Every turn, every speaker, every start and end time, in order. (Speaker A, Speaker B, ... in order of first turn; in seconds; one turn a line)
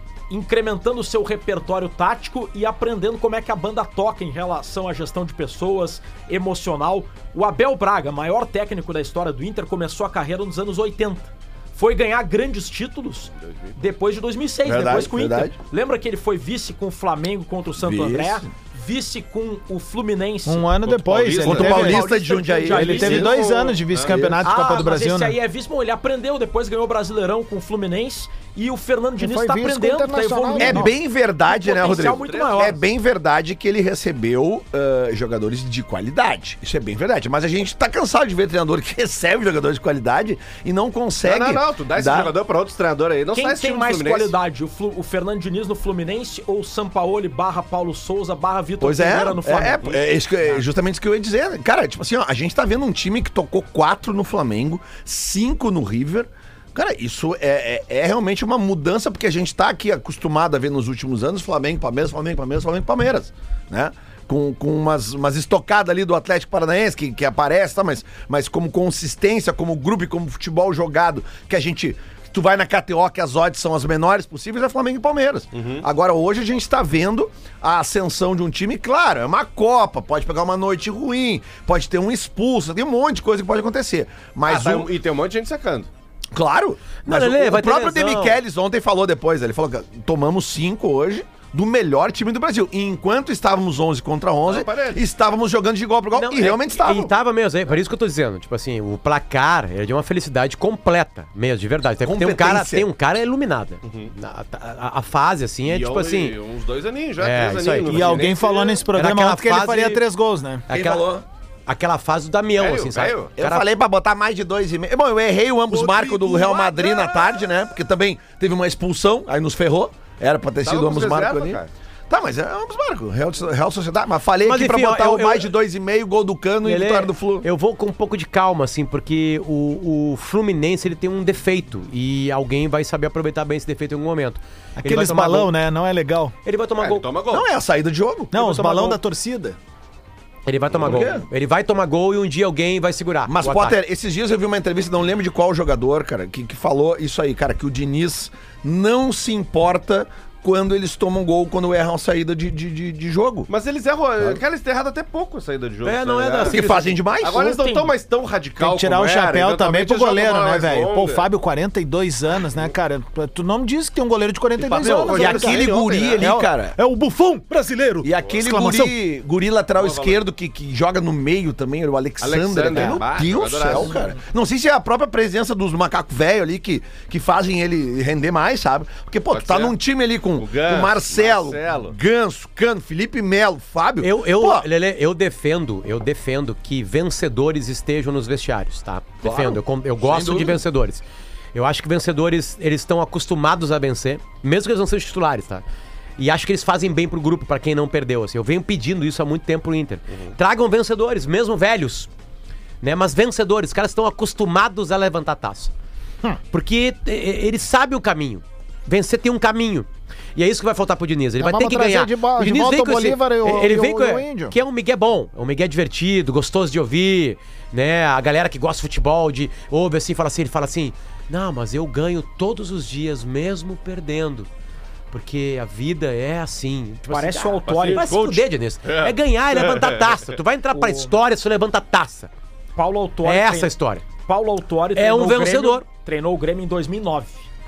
Speaker A: 0.3-20.7
Speaker B: 13.4-13.8
Speaker C: 14.6-15.6
Speaker C: 17.8-18.5
Speaker D: 20.5-22.1
Speaker B: 20.9-21.9
Speaker A: 21.3-32.8
Speaker C: 21.4-23.4
Speaker D: 22.7-25.4
Speaker B: 23.9-24.1
Speaker C: 24.1-24.4
Speaker D: 29.2-30.9
Speaker C: 30.6-42.3
Speaker B: 32.2-32.5
Speaker B: 41.2-44.4
Speaker A: 43.3-50.6
Speaker C: 48.8-84.9
Speaker B: 75.5-75.9
Speaker B: 84.5-85.9
Speaker C: 86.3-97.1
Speaker E: 87.0-88.4
Speaker B: 94.5-95.0
Speaker E: 96.1-106.4
Speaker C: 102.0-102.9
Speaker B: 103.8-104.1
Speaker B: 105.7-108.8
Speaker E: 107.2-108.2
Speaker D: 107.9-110.7
Speaker E: 109.0-110.0
Speaker E: 110.7-111.1
Speaker C: 110.7-111.2
Speaker E: 111.7-113.7
Speaker B: 112.6-113.3
Speaker C: 113.4-127.5
Speaker D: 115.7-117.0
Speaker B: 120.6-121.7
Speaker E: 124.4-125.5
Speaker E: 126.6-135.5
Speaker D: 134.8-136.3
Speaker E: 136.4-137.1
Speaker B: 136.8-137.5
Speaker C: 137.3-138.9
Speaker D: 138.3-139.6
Speaker E: 140.5-143.8
Speaker C: 140.7-141.3
Speaker C: 143.3-153.5
Speaker B: 153.5-161.3
Speaker E: 155.8-156.9
Speaker C: 156.5-157.6
Speaker A: 157.5-157.9
Speaker D: 158.6-169.0
Speaker B: 164.6-166.3
Speaker C: 164.7-166.8
Speaker C: 168.0-184.7
Speaker B: 169.8-170.2
Speaker B: 172.2-174.1
Speaker B: 179.3-179.8
Speaker B: 180.4-181.9
Speaker E: 184.0-191.0
Speaker C: 189.2-190.6
Speaker E: 191.5-195.6
Speaker E: 196.2-202.1
Speaker E: 202.8-205.7
Speaker E: 206.5-224.5
Speaker D: 211.4-214.6
Speaker E: 225.1-232.3
Speaker A: 227.1-228.1
Speaker B: 227.7-230.3
Speaker A: 230.7-231.2
Speaker A: 232.8-237.5
Speaker E: 233.2-234.1
Speaker E: 234.9-235.8